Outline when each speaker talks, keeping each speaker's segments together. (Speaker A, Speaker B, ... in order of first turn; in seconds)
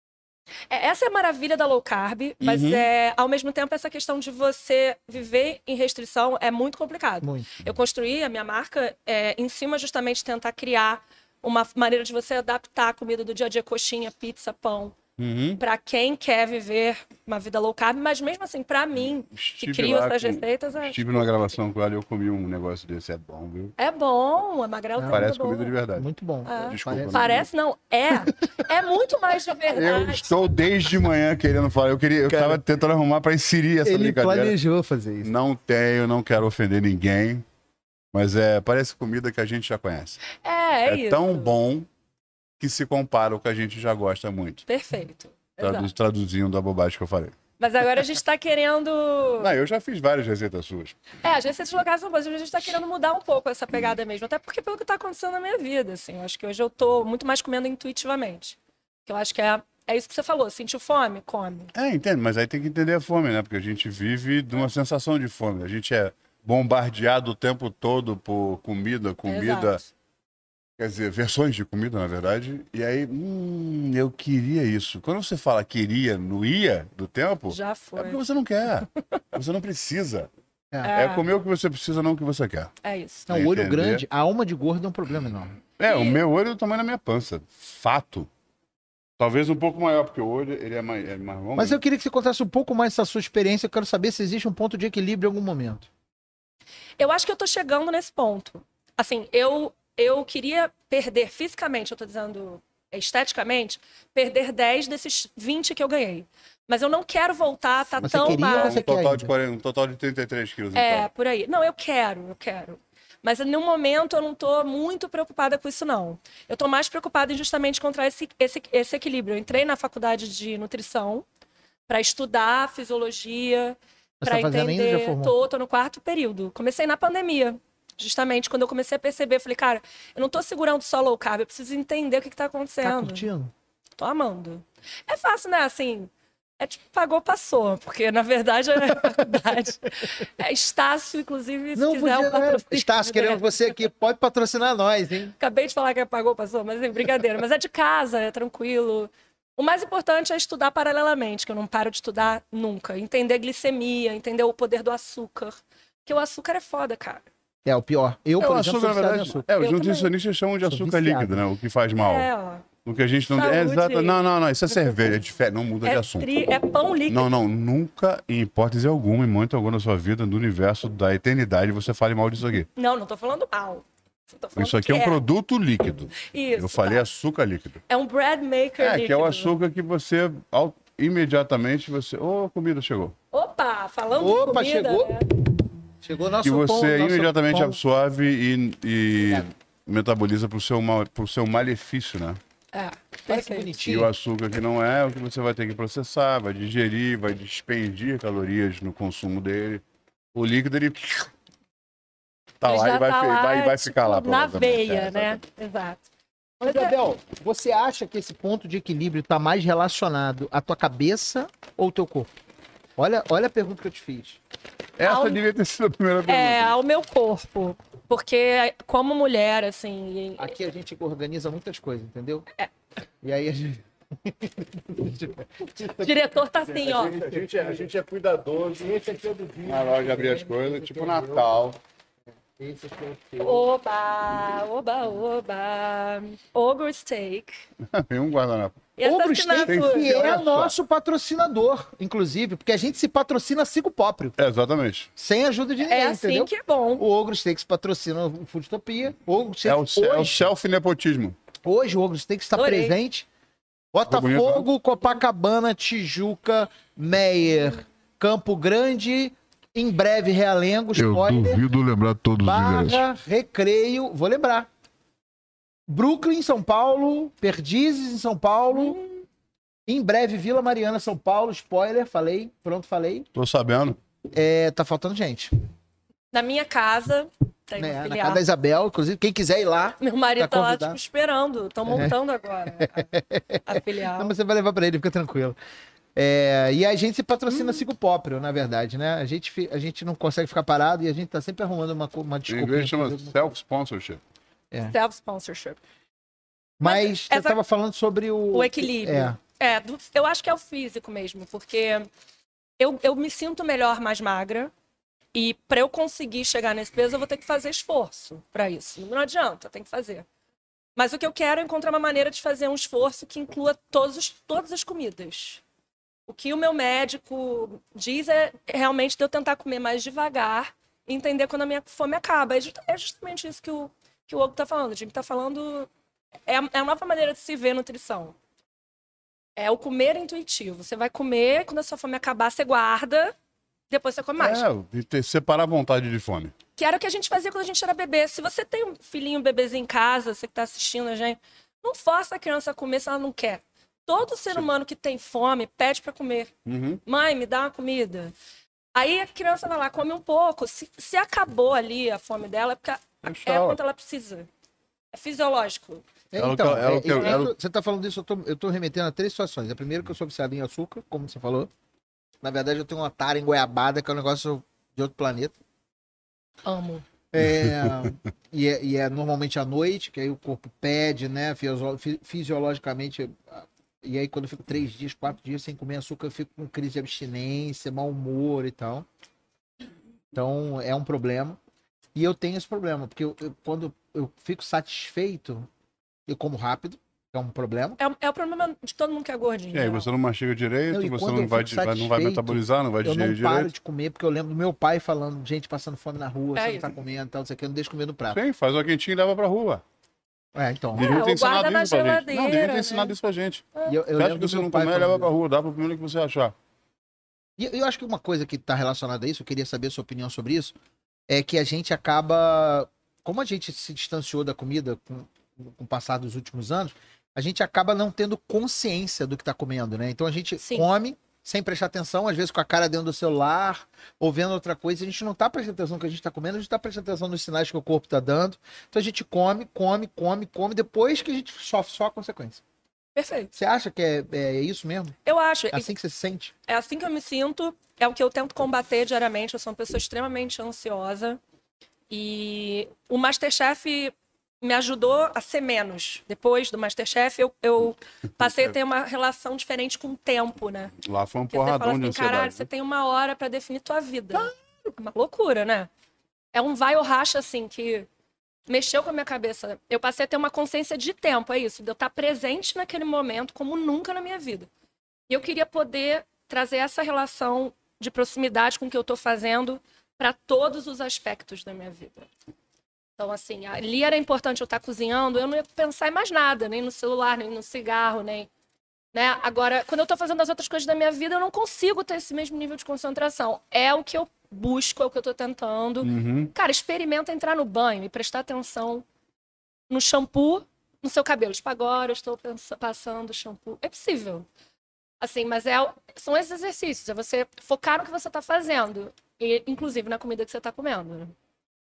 Speaker A: 0.7-14.9, 15.6-21.3, 23.8-25.7, 26.4-30.3, 40.3-41.5, 44.7-45.9, 47.6-49.5, 51.2-61.7, 69.2-69.8, 77.5-78.2, 80.8-81.2, 82.8-83.3, 85.8-86.2, 97.0-108.8, 110.7-121.2, 121.9-133.3, 134.0-143.4, 145.4-157.2, 159.5-160.1, 162.0-162.6, 163.3-165.1, 165.8-167.3, 172.8-175.2, 176.2-177.1, 177.9-179.5, 183.3-185.2, 192.7-193.8, 202.6-206.1, 206.6-206.9, 215.0-215.4, 216.3-220.5, 225.8-227.2, 233.4-237.5, 239.0-240.1, 245.8-247.0, 252.5-252.9, 268.7-269.1, 276.3-278.4, 280.0-283.1, 283.6-284.3, 287.5-287.8, 294.9-295.8, 296.8-297.6, 298.5-302.1, 302.8-304.7, 305.3-310.2, 310.9-315.6, 316.3-325.9, 326.5-328.3, 329.6-333.3, 333.9-334.6, 336.8-346.5, 347.0-348.3, 348.9-354.5, 355.1-356.0, 357.1-357.4, 366.6-367.0, 388.0-390.1, 396.6-396.9, 401.0-403.1, 420.6-420.9, 433.1-433.5, 435.2-435.9, 436.7-441.4, 442.1-450.9, 451.5-455.9, 456.5-458.1, 458.7-464.7, 465.3-472.3, 473.2-478.5, 479.1-489.0, 489.9-494.5, 495.2-501.3
Speaker B: 2.4-2.9, 15.2-15.6, 19.3-23.7, 25.1-26.1, 26.7-27.5, 29.7-34.5, 35.2-37.4, 38.1-40.2, 40.9-41.9, 42.6-44.6, 45.6-47.4, 49.4-51.0, 61.7-69.8, 70.8-80.3, 80.9-82.7, 83.3-84.0, 85.8-88.3, 89.2-91.8, 108.0-111.1, 158.4-162.3, 162.8-166.3, 167.1-172.7, 174.6-177.8, 178.8-183.1, 186.4-192.4, 193.8-199.8, 200.3-201.3, 202.6-205.4, 215.0-216.7, 227.1-228.5, 229.6-231.8, 237.9-238.9, 239.6-240.7, 244.4-245.1, 249.6-251.3, 254.1-254.7, 260.9-263.0, 273.3-274.0, 292.5-294.2, 334.4-336.5, 346.6-347.0, 353.2-353.8, 356.4-357.5, 389.7-393.7, 398.3-399.8, 400.9-406.5, 448.4-448.7, 451.0-452.7, 486.0-486.5
Speaker C: 7.2-7.6, 25.0-25.3, 25.9-27.4, 32.3-32.6, 33.8-35.3, 83.3-85.6, 91.5-95.9, 108.0-109.3, 124.2-125.3, 132.8-133.5, 141.7-145.3, 157.6-159.4, 160.6-161.4, 184.2-185.2, 186.0-187.8, 189.2-189.5, 193.3-194.1, 206.6-212.3, 213.0-214.4, 220.4-222.4, 223.2-226.2, 226.7-231.5, 232.6-233.7, 239.0-244.3, 245.2-250.5, 251.6-253.3, 253.9-261.6, 262.4-264.7, 265.9-269.0, 269.9-273.3, 274.3-275.5, 277.8-281.0, 281.9-282.1, 282.8-285.6, 286.1-293.5, 296.8-299.4, 356.3-361.7, 362.4-365.5, 367.3-379.1, 380.3-381.6, 382.1-385.7, 386.3-388.0, 390.9-398.4, 400.5-401.3, 403.9-405.3, 407.6-410.7, 411.3-432.6, 433.5-435.2, 435.7-436.5